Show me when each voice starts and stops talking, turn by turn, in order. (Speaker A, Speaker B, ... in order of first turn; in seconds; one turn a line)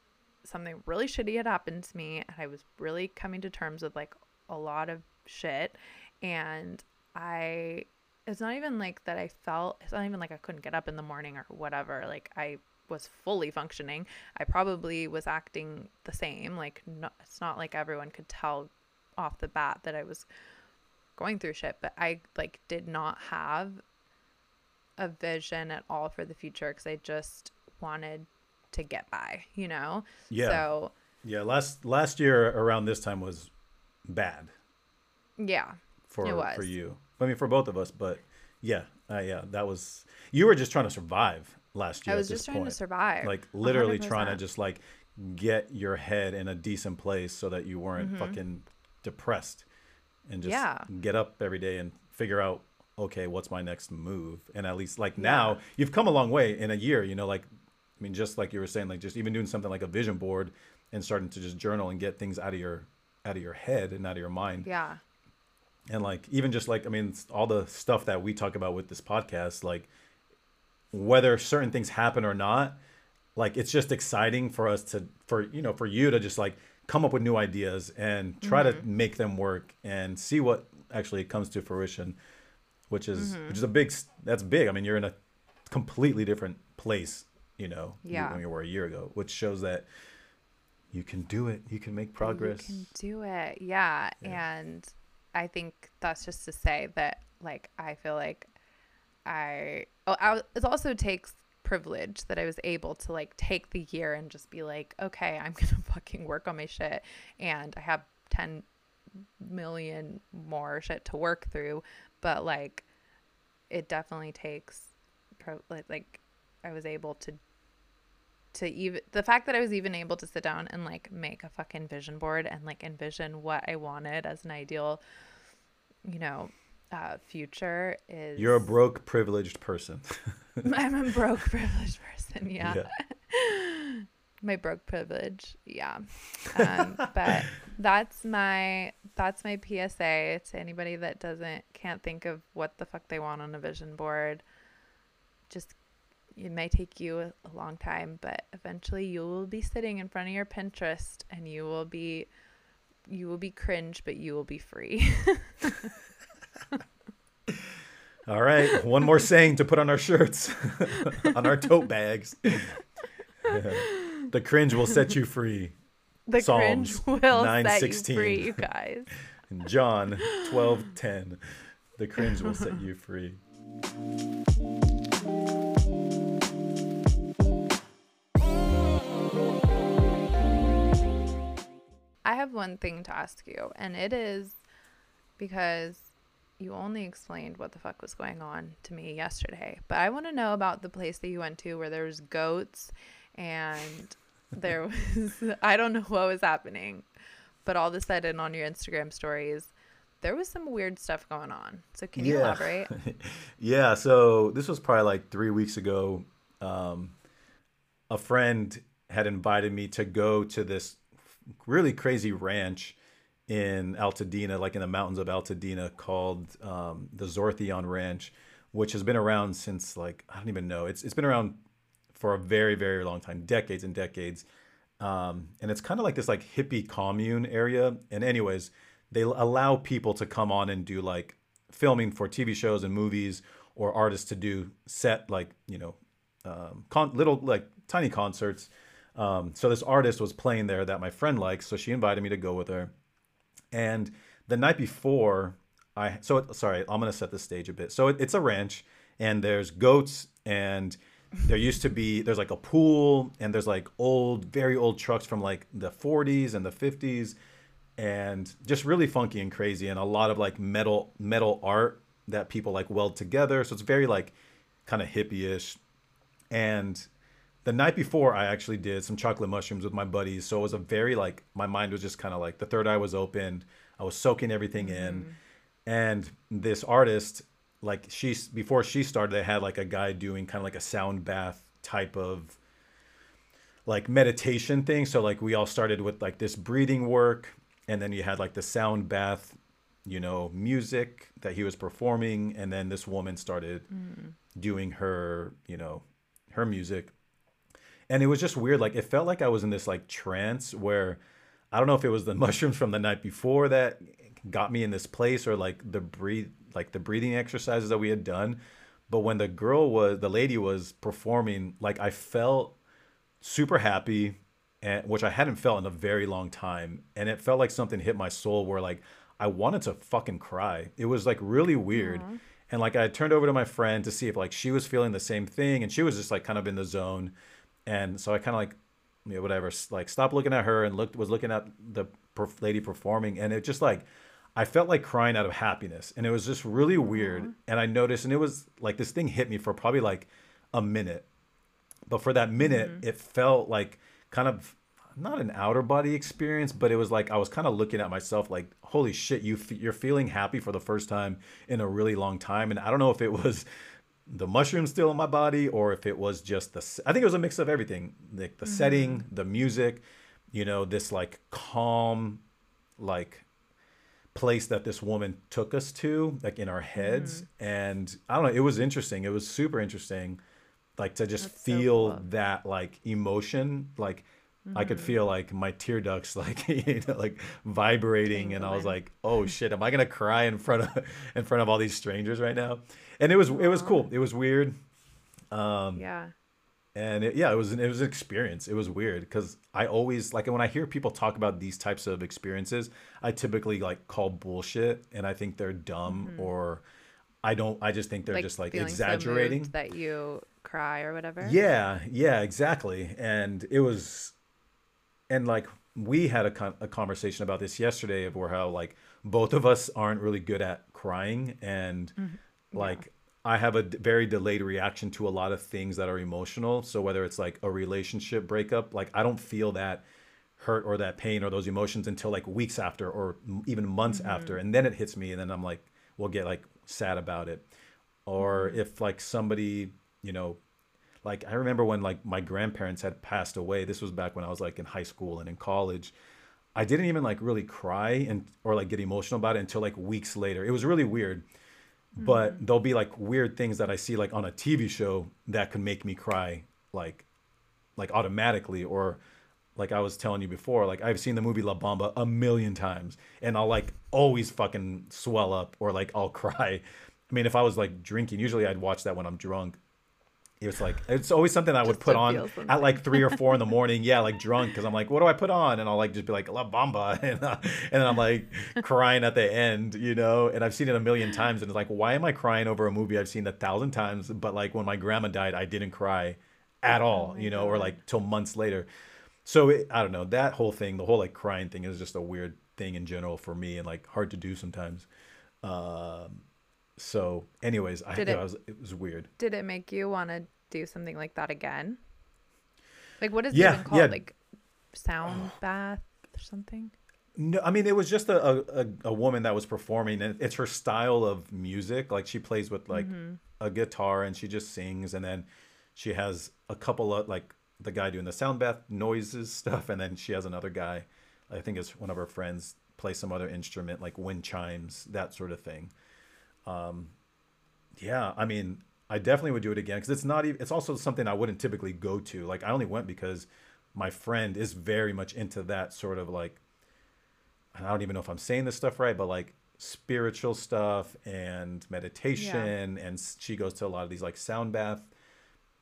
Speaker A: 0.4-20.2
Speaker A: 21.1-23.8
Speaker A: 25.0-30.9
Speaker B: 30.3-30.6
Speaker B: 31.2-33.5
Speaker B: 34.1-34.5
Speaker A: 35.4-36.7
Speaker B: 36.1-49.6
Speaker A: 42.0-44.4
Speaker A: 48.0-48.4
Speaker B: 50.3-57.5
Speaker A: 50.4-50.9
Speaker A: 55.2-55.6
Speaker B: 58.0-64.7
Speaker A: 64.6-65.0
Speaker B: 65.9-69.9
Speaker B: 70.9-72.8
Speaker B: 73.3-82.2
Speaker A: 78.4-78.8
Speaker B: 82.9-85.1
Speaker A: 83.2-83.6
Speaker B: 85.7-89.9
Speaker A: 88.0-88.4
Speaker B: 90.9-92.9
Speaker A: 92.2-98.5
Speaker A: 99.2-108.7
Speaker A: 109.4-112.8
Speaker A: 113.7-117.4
Speaker A: 118.5-125.0
Speaker A: 126.0-128.7
Speaker B: 128.4-130.6
Speaker A: 130.6-144.4
Speaker B: 132.6-132.9
Speaker A: 145.5-145.8
Speaker A: 146.3-152.3
Speaker A: 153.1-155.9
Speaker B: 158.3-162.7
Speaker B: 163.4-165.7
Speaker A: 163.5-164.3
Speaker A: 166.3-169.1
Speaker B: 166.4-168.6
Speaker B: 169.5-171.4
Speaker A: 170.2-170.8
Speaker B: 171.9-173.4
Speaker A: 172.2-172.7
Speaker A: 182.2-184.6
Speaker A: 185.4-197.1
Speaker A: 197.6-202.9
Speaker B: 202.2-207.1
Speaker B: 208.1-211.0
Speaker B: 211.6-221.6
Speaker B: 222.1-224.4
Speaker B: 225.0-242.9
Speaker B: 243.7-257.4
Speaker B: 258.0-264.3
Speaker B: 264.9-265.8
Speaker B: 266.5-267.1
Speaker B: 267.6-275.3
Speaker A: 274.8-275.4
Speaker B: 275.9-282.6
Speaker B: 283.9-293.9
Speaker A: 294.0-294.3
Speaker B: 294.5-297.1
Speaker B: 298.1-301.2
Speaker B: 301.7-312.8
Speaker B: 313.4-327.3
Speaker A: 321.9-322.4
Speaker B: 327.9-341.2
Speaker A: 337.0-337.5
Speaker B: 342.1-353.6
Speaker A: 342.6-343.0
Speaker B: 354.3-362.4
Speaker A: 358.6-359.2
Speaker B: 363.0-363.4
Speaker B: 364.3-370.4
Speaker A: 367.0-367.4
Speaker B: 371.0-384.7
Speaker A: 371.4-372.2
Speaker A: 374.6-375.2
Speaker A: 378.3-378.9
Speaker A: 383.5-384.0
Speaker B: 385.5-386.0
Speaker A: 385.9-386.3
Speaker B: 386.9-396.8
Speaker A: 396.1-396.5
Speaker B: 397.4-399.7
Speaker A: 398.3-401.6
Speaker B: 401.4-404.3
Speaker B: 405.3-412.2
Speaker A: 412.2-413.0
Speaker B: 412.8-420.0
Speaker B: 420.6-427.6
Speaker A: 424.1-424.6
Speaker B: 428.3-430.6
Speaker A: 428.4-428.8
Speaker B: 431.2-436.1
Speaker B: 436.7-441.4
Speaker B: 442.1-447.2
Speaker A: 442.2-442.6
Speaker B: 448.0-449.2
Speaker B: 449.8-459.8
Speaker B: 460.6-478.9
Speaker A: 461.8-463.6
Speaker A: 477.1-478.0
Speaker B: 479.4-485.1
Speaker B: 485.6-486.4
Speaker B: 487.0-489.3
Speaker A: 488.1-488.4
Speaker A: 489.4-492.0
Speaker A: 493.2-494.4
Speaker B: 493.5-494.2
Speaker A: 494.9-496.9
Speaker B: 495.2-495.5
Speaker B: 497.4-515.9
Speaker A: 502.9-503.4
Speaker B: 516.6-517.1
Speaker B: 518.0-526.6
Speaker B: 527.7-535.1
Speaker A: 532.4-532.7